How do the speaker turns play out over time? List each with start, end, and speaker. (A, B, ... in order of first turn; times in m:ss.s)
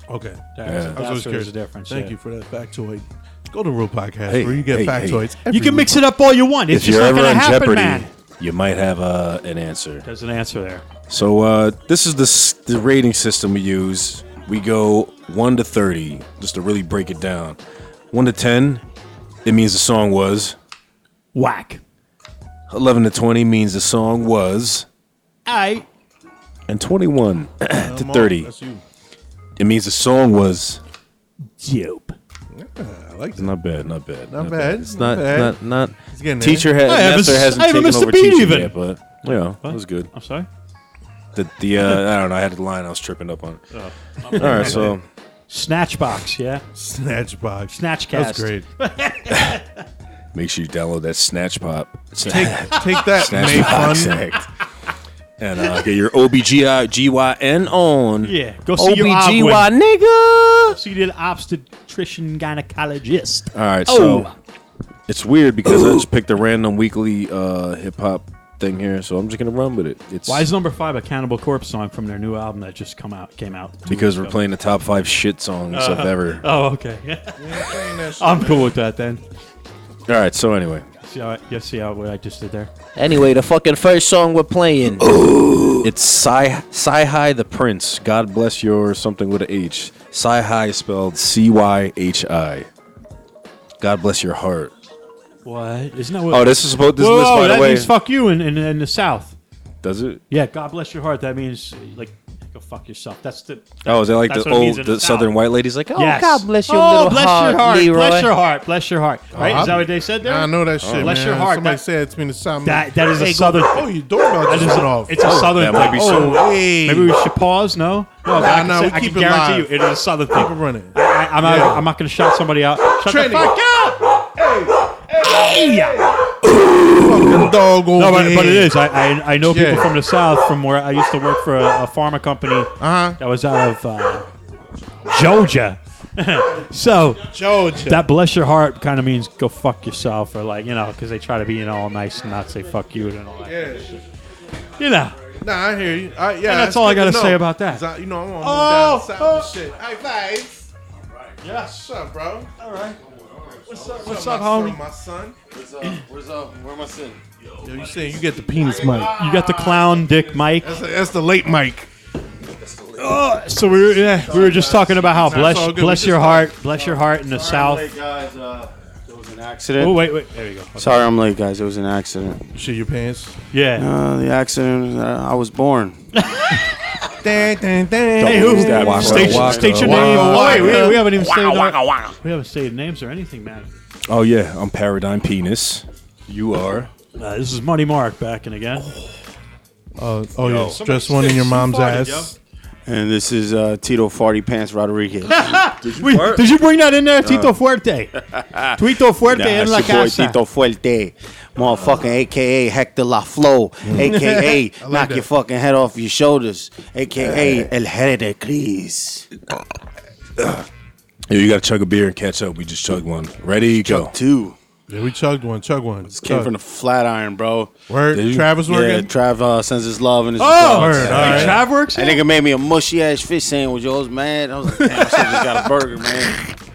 0:00.1-0:05.9 A
0:00.6-0:02.2 B
0:00.6-0:01.0 C
0:04.3-0:05.3 C
0:05.5-0:08.1 B
0:06.7-0:10.0 C
0:10.0-0:10.8 B
0:11.1-0:17.6 C
0:18.1-0:18.8 C
0:19.4-0:20.6 C
0:21.3-0:21.8 B
0:22.7-0:24.9 C
0:25.5-0:25.9 B
0:26.7-0:28.5 C
0:27.8-0:28.8 A
0:29.6-0:30.8 C
0:31.6-0:32.2 B
0:32.5-0:33.7 A
0:33.4-0:40.1 C
0:34.3-0:36.8 A
0:36.8-0:40.5 B
0:41.4-0:43.6 C
0:43.7-0:45.0 B
0:44.3-0:45.0 A
0:44.3-0:45.0 C
0:45.5-0:46.6 B
0:46.8-0:48.7 A
0:47.7-0:49.8 B
0:49.3-0:49.6 C
0:50.3-0:54.5 C
0:52.2-0:54.2 A
0:52.8-0:53.8 B
0:55.4-0:58.3 C
0:58.2-0:59.7 B
0:58.8-1:00.8 D
0:59.2-0:59.7 C
1:00.7-1:04.4 B
1:03.5-1:04.3 C
1:05.1-1:10.5 C
1:10.3-1:14.4 B
1:13.9-1:16.4 C
1:15.7-1:19.2 B
1:17.4-1:18.7 A
1:20.1-1:20.9 C
1:21.0-1:22.7 B
1:23.0-1:25.8 D
1:25.0-1:32.7 C
1:33.8-1:34.7 C
1:35.4-1:39.4 B
1:36.3-1:37.9 C
1:39.8-1:40.2 C
1:40.3-1:45.4 B
1:43.8-1:46.2 C
1:46.0-1:51.8 B
1:46.0-1:48.3 D
1:49.3-1:57.2 A
1:49.4-1:49.7 C
1:50.8-1:51.2 C
1:52.6-2:04.0 B
1:53.2-1:53.7 D
1:55.2-1:56.5 C
1:58.2-1:59.8 A
2:00.3-2:01.9 A
2:03.0-2:03.6 A
2:04.2-2:08.8 A
2:05.2-2:06.2 B
2:07.3-2:14.3 B
2:09.5-2:09.9 A
2:12.8-2:13.2 A
2:15.0-2:24.0 B
2:17.3-2:18.1 A
2:23.4-2:24.0 A
2:24.8-2:25.2 B
2:25.4-2:30.7 A
2:26.4-2:27.8 B
2:28.4-2:29.6 B
2:31.1-2:31.4 E
2:31.4-2:31.8 B
2:31.6-2:32.5 A
2:32.6-2:33.0 B
2:33.0-2:33.8 E
2:33.7-2:34.8 B
2:33.7-2:35.4 A
2:35.5-2:40.3 E
2:37.6-2:39.2 A
2:39.0-2:40.8 B
2:40.6-2:41.9 A
2:42.5-2:43.2 E
2:43.0-2:47.9 B
2:44.0-2:45.1 E
2:45.0-2:46.5 A
2:46.7-2:50.1 E
2:49.8-2:51.1 B
2:50.8-2:52.4 E
2:52.5-2:53.4 A
2:53.5-2:53.9 B
2:53.8-2:56.0 E
2:56.2-2:56.6 B
2:57.2-3:01.1 A
2:58.2-3:00.8 E
2:58.2-3:03.7 B
2:58.6-3:00.7 C
3:01.2-3:01.7 D
3:04.1-3:06.9 C
3:07.2-3:08.9 B
3:10.0-3:12.4 A
3:10.4-3:10.8 C
3:10.5-3:12.3 B
3:12.9-3:15.5 E
3:15.3-3:18.1 B
3:15.8-3:16.4 C
3:18.3-3:29.3 E
3:18.7-3:20.4 B
3:23.9-3:25.3 A
3:27.2-3:27.7 C
3:30.4-3:30.6 C
3:31.3-3:34.2 C
3:33.8-3:34.6 E
3:34.9-3:36.5 A
3:36.1-3:37.7 E
3:37.9-3:39.1 A
3:38.1-3:38.5 C
3:38.6-3:46.5 E
3:40.4-3:42.2 B
3:40.8-3:41.6 A
3:41.0-3:41.6 C
3:44.8-3:45.5 A